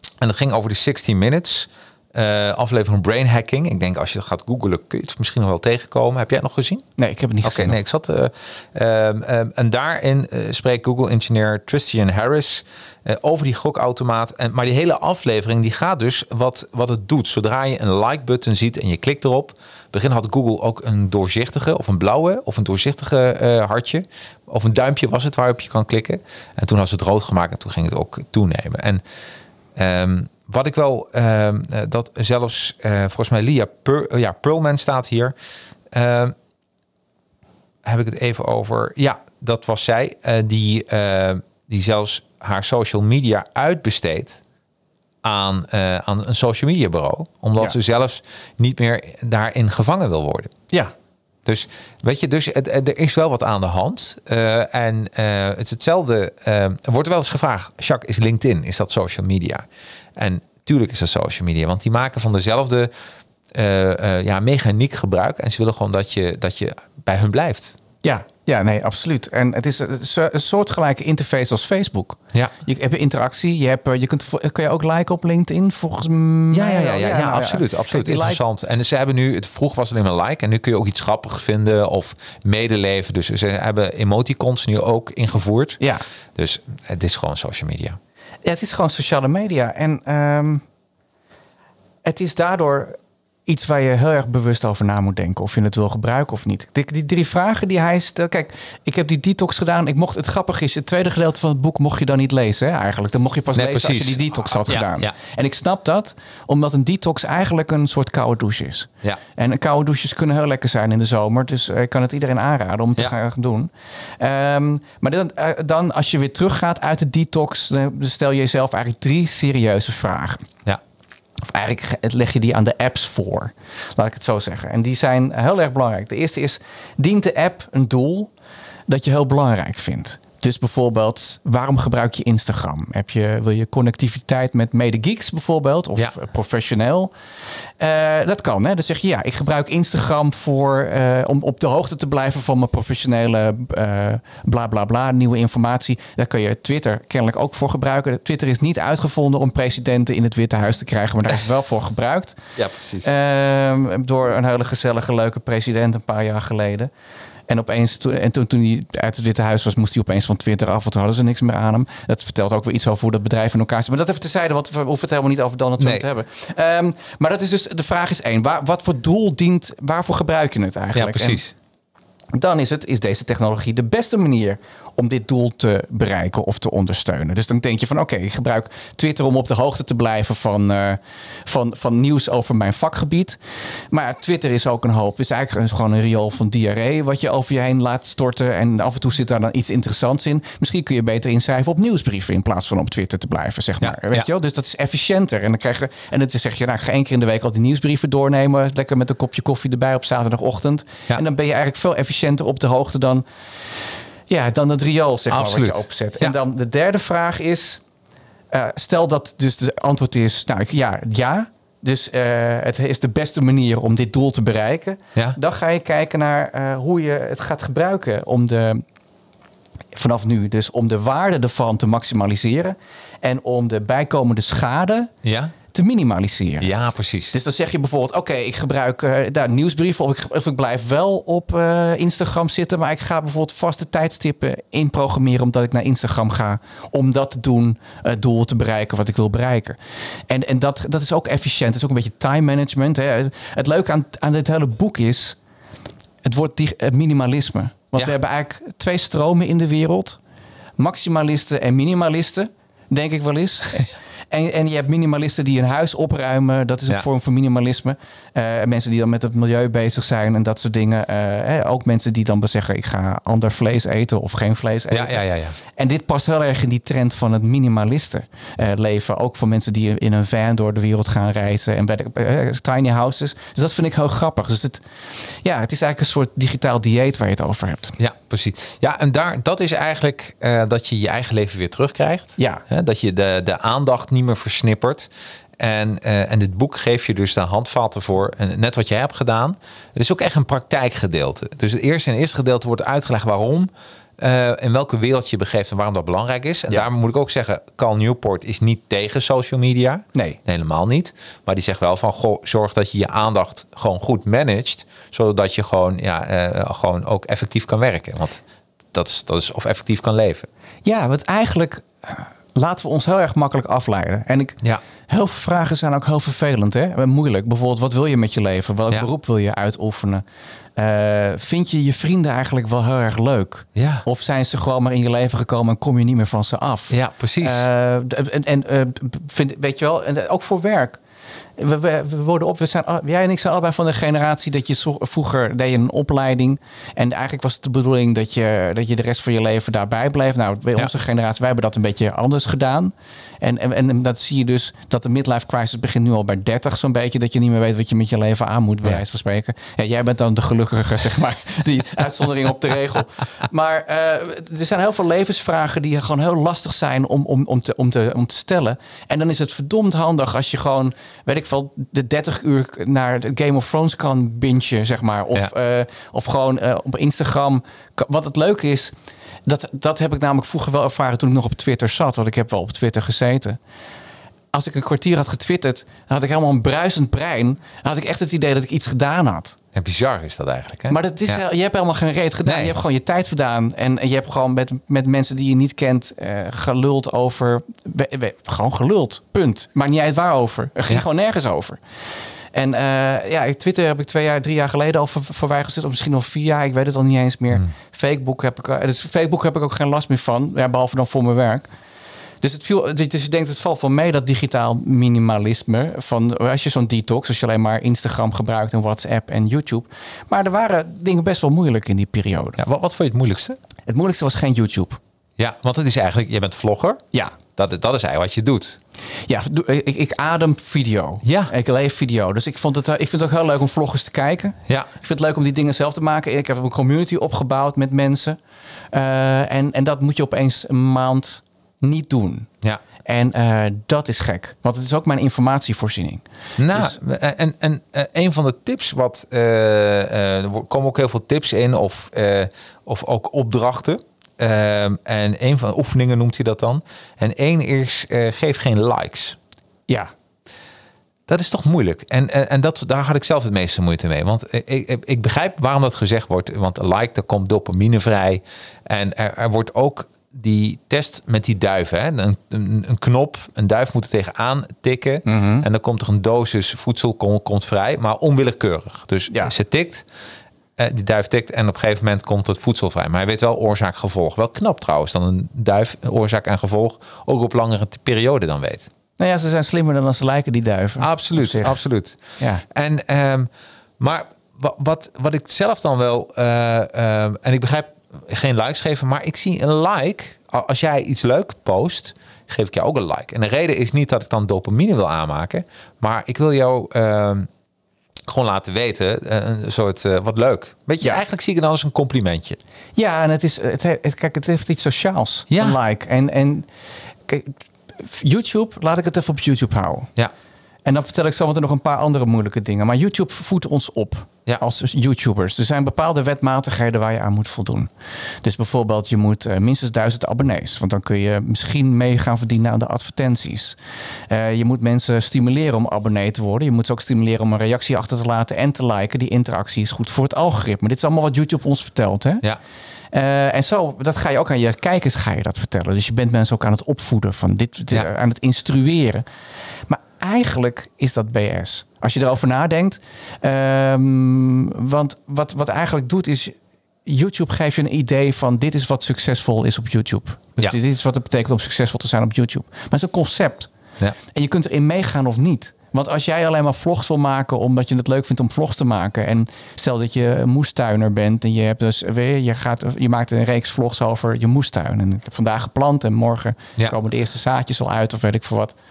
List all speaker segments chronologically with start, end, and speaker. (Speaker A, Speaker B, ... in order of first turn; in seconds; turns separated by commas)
Speaker A: 0.2-6.8, Speaker B: 7.0-7.8, Speaker A: 7.4-29.0, Speaker A: 29.8-35.3, Speaker A: 35.9-36.3, Speaker A: 37.8-44.4, Speaker A: 45.2-50.5, Speaker A: 51.5-59.6, Speaker A: 60.2-62.9, Speaker A: 63.5-67.8, Speaker B: 68.0-78.4, Speaker A: 76.5-85.8, Speaker A: 86.3-88.0, Speaker B: 88.4-90.6, Speaker B: 92.0-120.4, Speaker A: 103.5-105.1, Speaker B: 121.4-128.3, Speaker B: 128.9-137.1, Speaker B: 137.8-152.4, Speaker A: 152.6-153.1, Speaker B: 153.0-156.9, Speaker B: 157.5-171.4, Speaker A: 165.8-166.0, Speaker A: 170.9-171.5, Speaker B: 172.3-203.2, Speaker A: 193.8-194.3, Speaker B: 204.3-207.8, Speaker A: 205.3-206.3, Speaker B: 208.5-218.8, Speaker B: 219.9-225.1, Speaker A: 225.2-225.5, Speaker B: 225.7-226.7, Speaker A: 226.6-227.3, Speaker B: 227.3-239.8, Speaker B: 240.3-245.4, Speaker B: 246.2-250.2, Speaker B: 250.8-277.9, Speaker A: 264.9-265.6, Speaker A: 278.0-285.1, Speaker B: 282.4-282.6, Speaker A: 285.6-308.4, Speaker B: 300.1-300.4, Speaker A: 308.9-310.5, Speaker B: 310.8-320.2, Speaker B: 320.8-331.0, Speaker A: 323.8-324.0, Speaker A: 326.9-327.6, Speaker B: 331.6-373.6, Speaker B: 374.5-379.6, Speaker A: 379.7-381.4, Speaker B: 380.9-391.8, Speaker A: 382.4-382.7, Speaker B: 392.5-401.7, Speaker B: 402.4-412.6, Speaker A: 412.6-413.6, Speaker B: 413.9-415.0, Speaker A: 415.4-417.0, Speaker A: 417.5-418.8, Speaker B: 419.3-428.4, Speaker A: 421.2-421.5, Speaker B: 428.9-432.5, Speaker B: 433.0-437.0, Speaker A: 436.6-449.4, Speaker A: 451.3-470.0, Speaker B: 465.2-465.6, Speaker A: 470.8-478.9, Speaker B: 479.2-481.8, Speaker A: 481.0-497.5, Speaker B: 482.4-482.6, Speaker A: 498.3-502.6, Speaker B: 502.9-506.7, Speaker A: 505.5-505.8, Speaker B: 507.3-510.1, Speaker B: 510.8-517.9, Speaker B: 518.4-523.8, Speaker B: 524.3-532.4, Speaker B: 533.1-539.2, Speaker B: 539.9-553.7, Speaker B: 554.3-568.8